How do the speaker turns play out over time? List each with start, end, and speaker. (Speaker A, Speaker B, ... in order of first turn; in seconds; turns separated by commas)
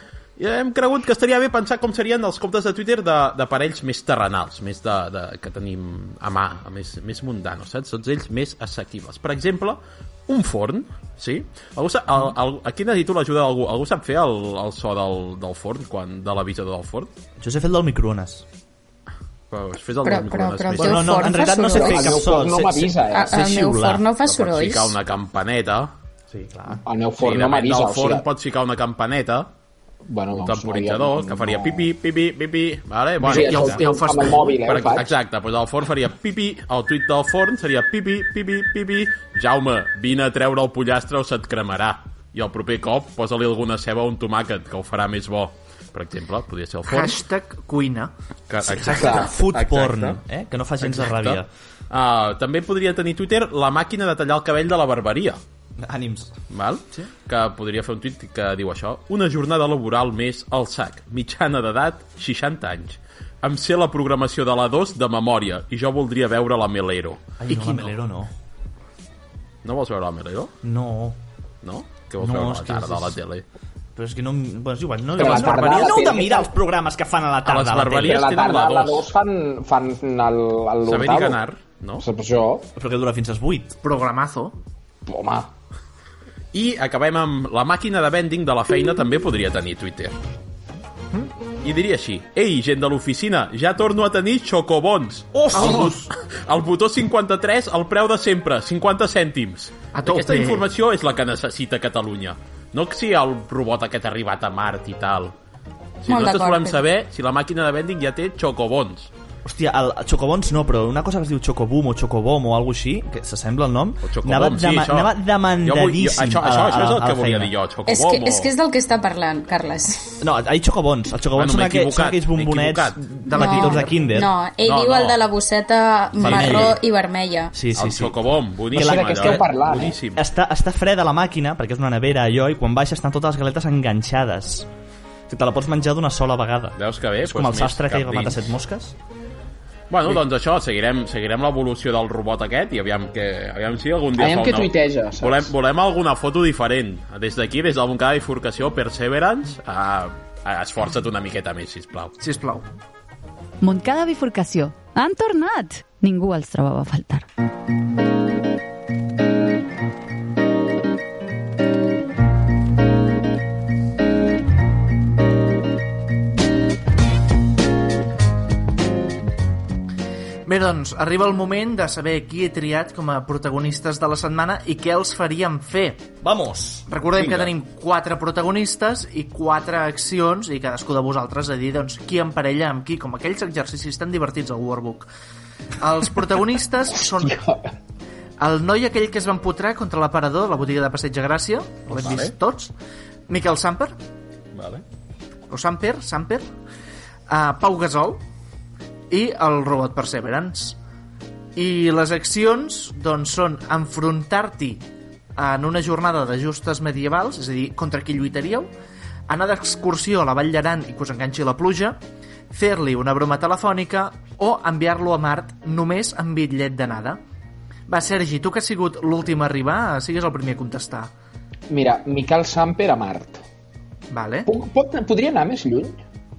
Speaker A: 0.4-17.1, Speaker B: 17.4-18.4, Speaker A: 19.5-21.2, Speaker C: 20.0-22.2, Speaker B: 20.8-24.1, Speaker D: 21.7-23.3, Speaker C: 23.1-24.9, Speaker A: 24.2-25.9, Speaker B: 26.3-26.8, Speaker D: 26.8-28.2, Speaker A: 27.2-29.5, Speaker D: 30.1-31.9, Speaker A: 30.3-47.2, Speaker D: 33.2-35.2, Speaker E: 33.3-34.5, Speaker E: 46.9-48.1, Speaker A: 48.5-50.2, Speaker B: 48.6-51.5, Speaker D: 48.9-49.2, Speaker A: 50.8-55.4, Speaker B: 55.8-56.3, Speaker A: 56.5-67.2, Speaker B: 67.4-68.3, Speaker E: 67.5-67.9, Speaker A: 69.6-70.5, Speaker B: 70.6-71.2, Speaker A: 71.6-73.4, Speaker B: 72.2-73.2, Speaker B: 73.9-78.2, Speaker D: 75.1-76.5, Speaker A: 75.4-75.7, Speaker A: 77.4-79.1, Speaker D: 78.0-81.4, Speaker A: 80.8-82.0, Speaker D: 82.0-82.7, Speaker B: 82.8-83.8, Speaker E: 83.8-84.5, Speaker D: 85.0-85.5, Speaker A: 86.5-90.1, Speaker A: 91.6-105.3, Speaker E: 95.5-95.9, Speaker E: 99.9-100.6, Speaker A: 106.0-109.1, Speaker C: 106.1-106.8, Speaker B: 109.4-117.5, Speaker A: 114.0-118.5, Speaker C: 117.9-120.1, Speaker B: 120.2-124.3, Speaker A: 121.4-123.0, Speaker E: 123.2-123.9, Speaker C: 123.4-127.5, Speaker A: 124.6-125.2, Speaker A: 126.2-126.8, Speaker B: 126.2-126.8, Speaker B: 127.5-128.2, Speaker A: 127.7-130.2, Speaker B: 128.7-129.4, Speaker D: 128.7-130.0, Speaker B: 130.2-134.7, Speaker B: 135.3-138.9, Speaker A: 136.8-138.4, Speaker A: 139.9-152.2, Speaker D: 144.2-145.5, Speaker E: 152.2-152.7, Speaker F: 153.6-157.2, Speaker E: 170.4-176.0, Speaker B: 176.2-176.8, Speaker E: 176.9-185.1, Speaker A: 177.2-177.5, Speaker E: 185.8-187.4, Speaker D: 187.0-187.6, Speaker E: 188.4-192.7, Speaker A: 191.9-192.3, Speaker E: 193.3-193.9, Speaker A: 194.5-194.8, Speaker E: 195.5-196.4, Speaker E: 197.3-198.2, Speaker E: 199.1-200.8, Speaker E: 201.6-204.8, Speaker E: 205.4-208.7, Speaker E: 209.3-212.0, Speaker E: 212.5-217.2, Speaker E: 217.9-221.1, Speaker D: 221.7-223.4, Speaker E: 224.1-224.5, Speaker D: 224.4-226.0